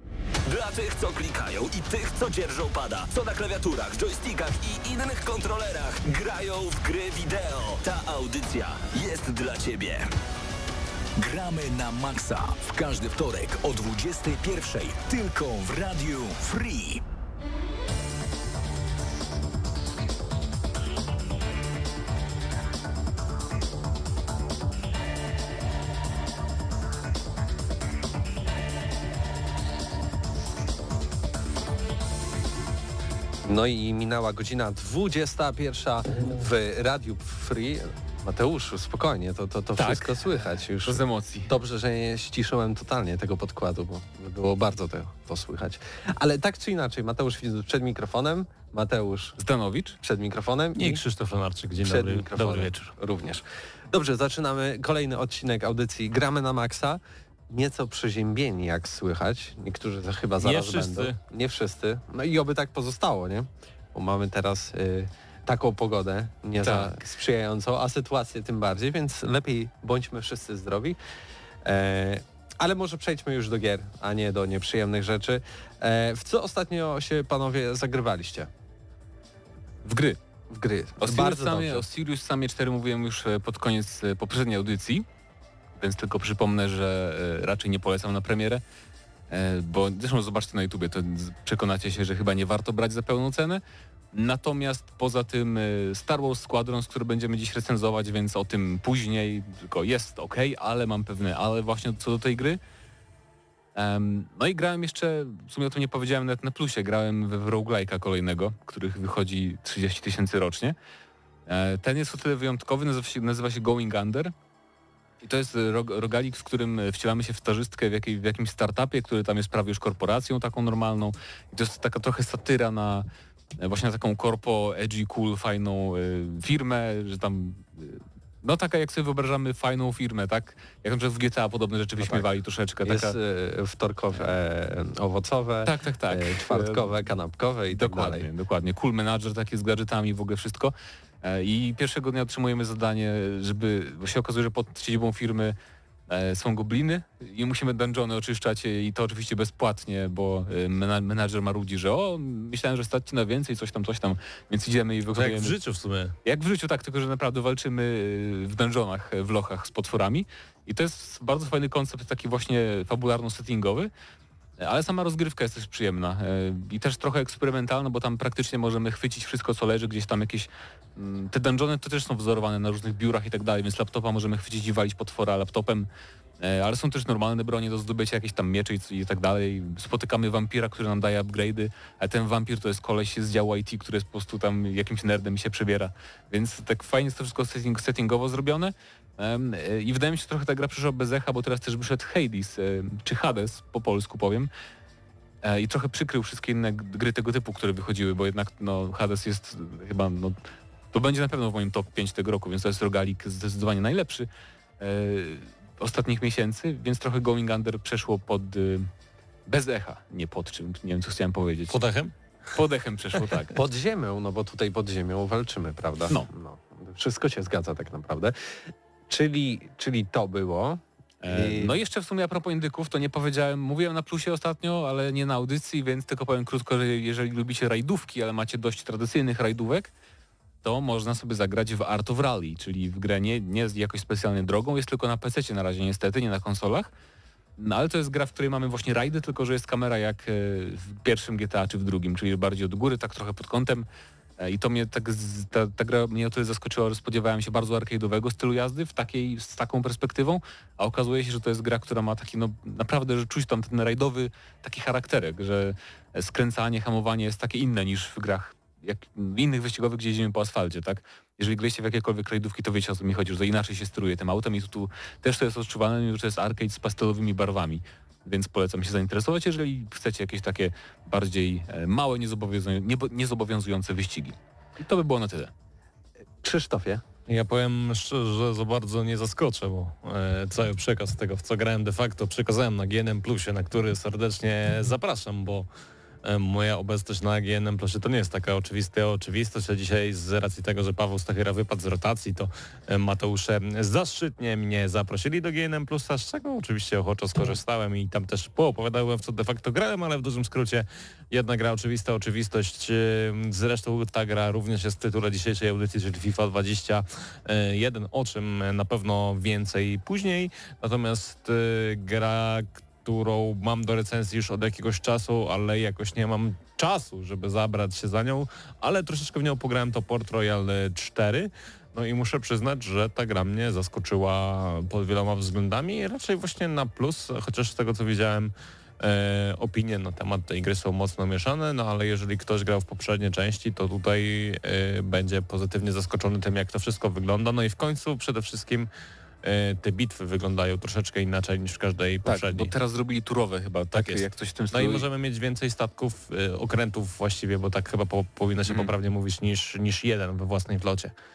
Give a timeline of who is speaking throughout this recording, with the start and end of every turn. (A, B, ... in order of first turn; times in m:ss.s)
0:00.4-0:10.1 A
0:11.2-0:17.0 B
0:33.4-0:49.4 C
0:39.8-0:41.6 D
0:49.4-0:50.0 D
0:50.0-0:51.0 C
0:50.8-0:52.7 E
0:51.8-1:11.0 C
1:00.4-1:01.2 E
1:06.6-1:07.0 D
1:11.6-1:18.5 C
1:19.8-1:20.2 D
1:20.5-1:21.9 C
1:21.0-1:25.1 D
1:25.8-1:28.6 D
1:29.3-1:33.6 D
1:34.1-1:42.6 D
1:43.8-1:50.8 D
1:51.5-1:54.3 D
1:55.2-2:03.1 D
2:03.6-2:13.2 D
2:12.0-2:12.3 C
2:12.8-2:18.3 C
2:15.6-2:17.0 D
2:17.7-2:25.6 D
2:26.1-2:35.6 D
2:35.1-2:36.2 E
2:36.2-2:43.9 D
2:44.6-2:55.9 D
2:56.4-3:14.5 D
3:15.4-3:20.4 D
3:20.9-3:24.3 D
3:24.8-3:28.9 D
3:29.5-3:31.8 D
3:31.7-3:32.1 E
3:32.5-3:33.6 D
3:33.5-3:38.4 C
3:39.1-3:41.8 C
3:41.2-3:49.9 D
3:50.6-3:56.9 D
3:57.6-4:03.9 D
4:04.4-4:35.5 D
4:36.4-4:37.0 C
4:37.3-4:45.7 E
4:46.2-5:38.9 E
5:39.4-5:42.7 E
5:42.2-5:45.1 D
5:43.9-5:51.2 E